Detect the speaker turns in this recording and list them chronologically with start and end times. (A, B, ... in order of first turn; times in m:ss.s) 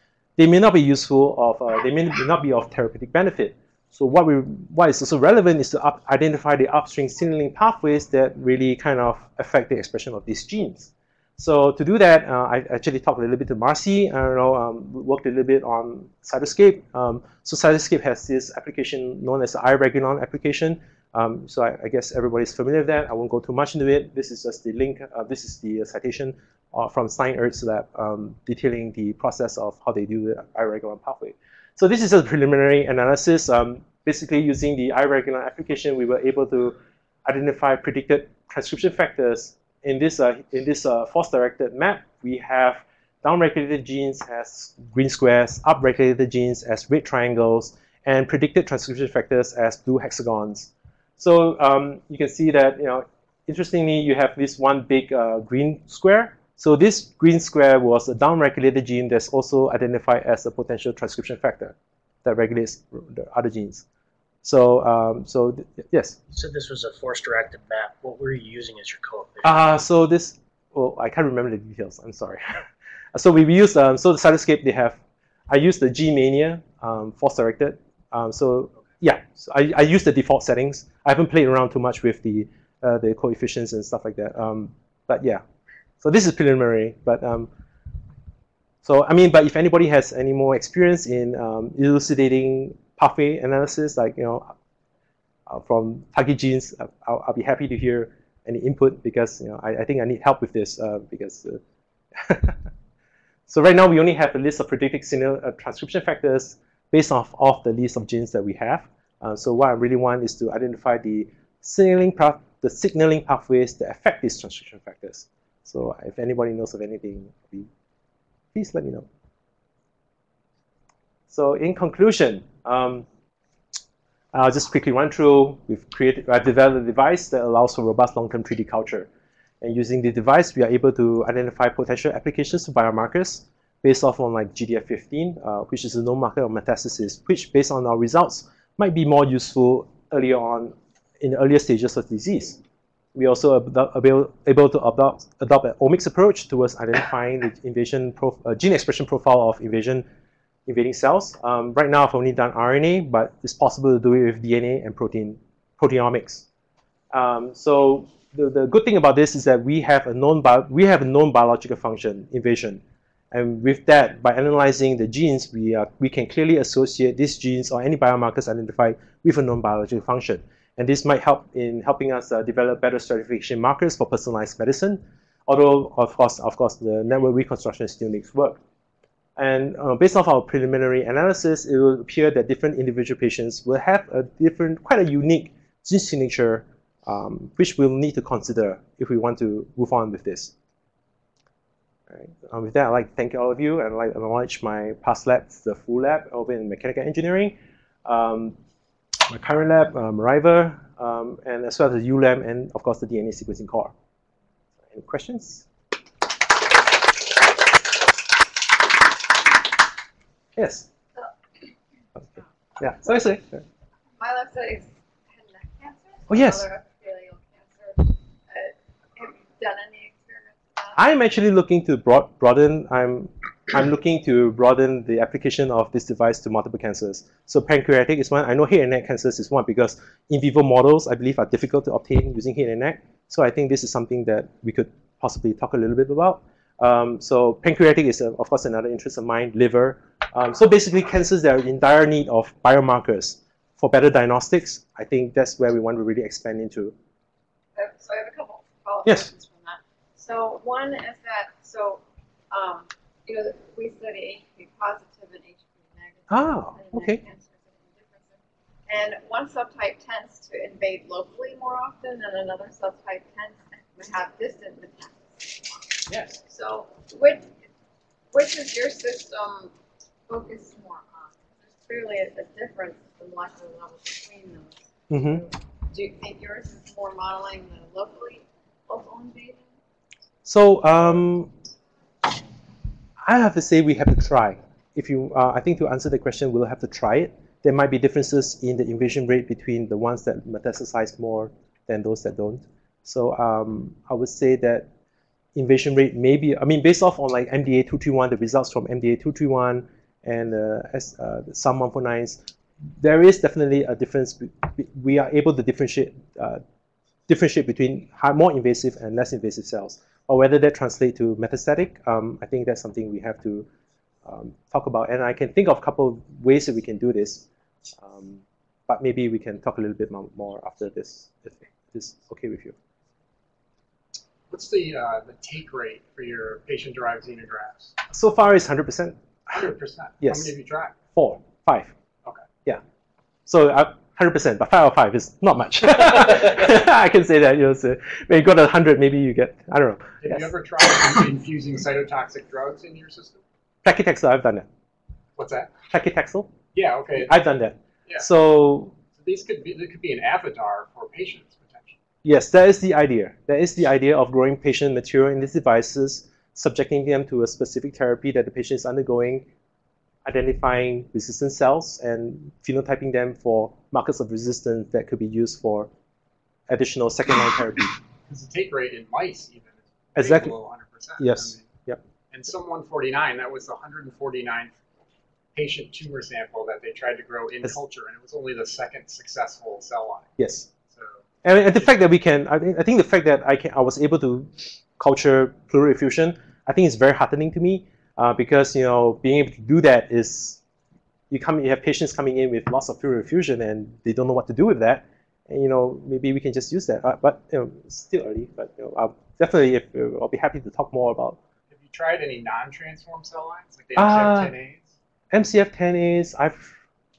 0:00.4-1:03.8 A
1:04.4-1:06.2 A
1:06.3-1:09.6 B
1:09.4-1:15.0 A
1:15.5-1:25.4 A
1:26.0-1:27.5 A
1:28.8-1:34.5 A
1:35.5-1:41.6 A
1:42.2-1:42.6 A
1:43.5-1:57.7 A
1:58.5-1:59.0 A
2:01.3-2:03.0 A
2:04.3-2:09.1 A
2:09.6-2:22.6 A
2:23.1-2:30.0 A
2:30.7-2:36.4 A
2:37.1-2:42.8 A
2:43.3-2:58.6 A
2:59.4-3:10.5 A
3:12.1-3:18.5 A
3:19.3-3:23.9 A
3:24.9-3:25.6 A
3:30.6-3:30.8 A
3:32.8-3:33.6 A
3:34.2-3:41.0 C
3:36.3-3:36.6 A
3:41.0-4:06.9 A
4:07.8-4:27.5 C
4:09.0-4:09.3 A
4:16.3-4:17.2 A
4:26.1-4:26.4 A
4:28.3-4:29.7 C
4:30.3-4:39.8 C
4:35.1-4:35.4 A
4:40.4-4:41.5 A
4:43.2-4:54.9 A
4:55.5-5:02.4 A
5:02.9-5:06.6 A
5:07.3-5:13.6 A
5:14.2-5:17.4 A
5:18.0-5:22.7 A
5:24.5-5:28.0 D
5:28.1-5:29.7 A
5:29.5-5:31.0 D
5:30.2-5:31.9 A
5:33.4-5:40.5 A
5:40.2-5:43.4 D
5:43.8-5:44.7 A
5:45.4-5:45.7 D
5:45.9-5:46.6 A
5:46.7-5:47.4 D
5:47.2-5:48.9 A
5:49.1-5:52.0 D
5:52.2-5:59.4 A
6:00.2-6:05.9 A
6:06.7-6:08.0 A
6:08.2-6:11.7 D
6:10.2-6:10.6 A
6:11.2-6:12.0 A
6:12.3-6:14.8 D
6:15.5-6:20.3 D
6:20.4-6:20.7 A
6:20.9-6:21.2 D
6:21.4-6:30.6 A
6:31.3-6:41.4 A
6:41.7-6:44.9 D
6:43.9-6:44.6 A
6:45.3-6:46.8 A